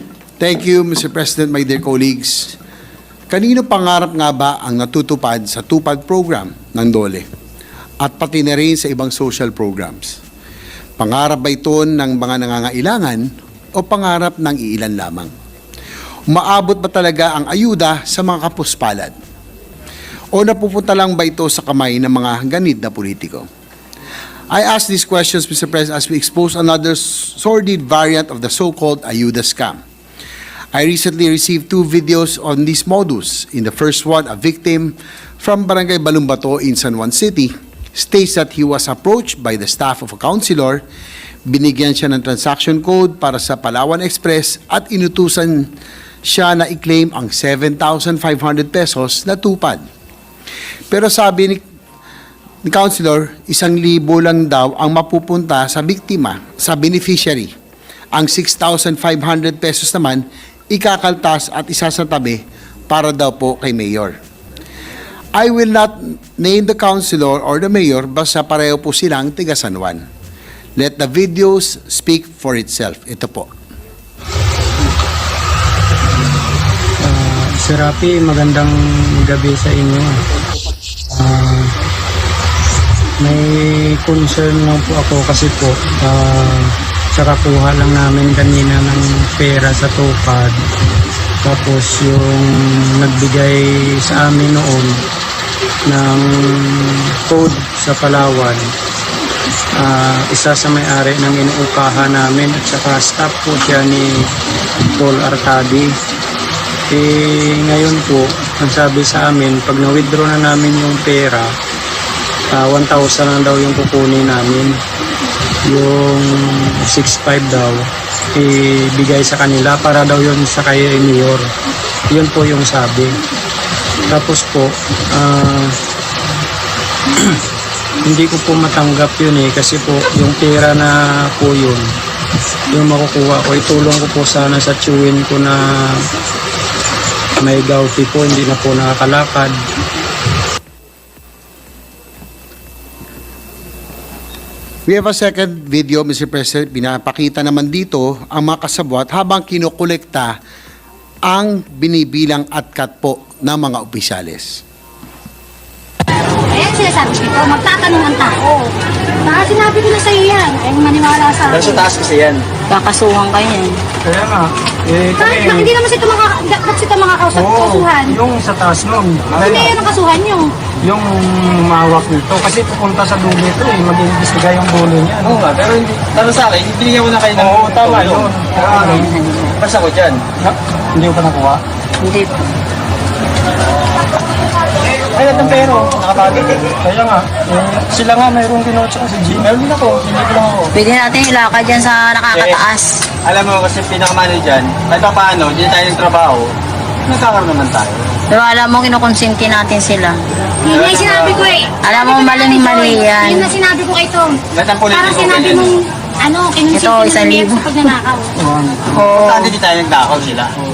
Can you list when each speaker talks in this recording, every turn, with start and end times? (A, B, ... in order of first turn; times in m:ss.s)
0:00.4-0:02.6 A
0:03.3-0:07.2 A
0:08.0-0:10.2 A
0:11.0-0:15.3 A
0:16.3-0:19.1 A
0:20.3-0:23.4 A
0:24.5-0:29.8 A
0:30.7-0:40.8 A
0:41.5-0:45.7 A
0:46.2-0:49.8 A
0:50.9-0:51.6 A
0:52.6-0:57.5 A
0:58.1-1:04.1 A
1:05.4-1:10.0 A
1:10.8-1:13.5 A
1:17.0-1:20.2 B
1:21.1-1:21.7 B
1:23.2-1:30.5 B
1:31.4-1:35.0 B
1:35.9-1:38.6 B
1:39.7-1:44.2 B
1:45.0-1:45.9 B
1:46.9-1:51.5 B
1:52.5-1:54.8 B
1:55.6-2:01.5 B
2:02.1-2:03.2 B
2:04.1-2:05.7 B
2:08.0-2:11.9 B
2:12.7-2:16.0 B
2:17.4-2:19.6 B
2:24.9-2:30.4 A
2:31.2-2:34.6 A
2:36.5-2:38.7 C
2:39.2-2:41.9 C
2:41.5-2:42.4 D
2:42.7-2:43.8 E
2:44.0-2:45.7 B
2:45.2-2:48.2 C
2:47.3-2:49.7 B
2:49.3-2:49.6 D
2:49.4-2:50.5 C
2:50.8-2:55.4 B
2:55.2-2:59.0 D
2:57.3-2:59.2 B
2:59.0-2:59.5 E
2:59.6-3:00.2 D
3:00.4-3:01.6 B
3:02.0-3:02.3 E
3:05.1-3:06.7 D
3:05.2-3:06.0 B
3:06.8-3:09.6 B
3:09.4-3:10.7 D
3:10.7-3:13.0 E
3:12.3-3:12.6 D
3:13.2-3:16.5 D
3:17.0-3:18.2 D
3:18.3-3:20.2 E
3:20.6-3:28.3 C
3:20.6-3:21.5 D
3:21.8-3:23.5 E
3:24.5-3:25.7 D
3:26.7-3:27.9 E
3:28.4-3:30.5 D
3:28.9-3:29.6 E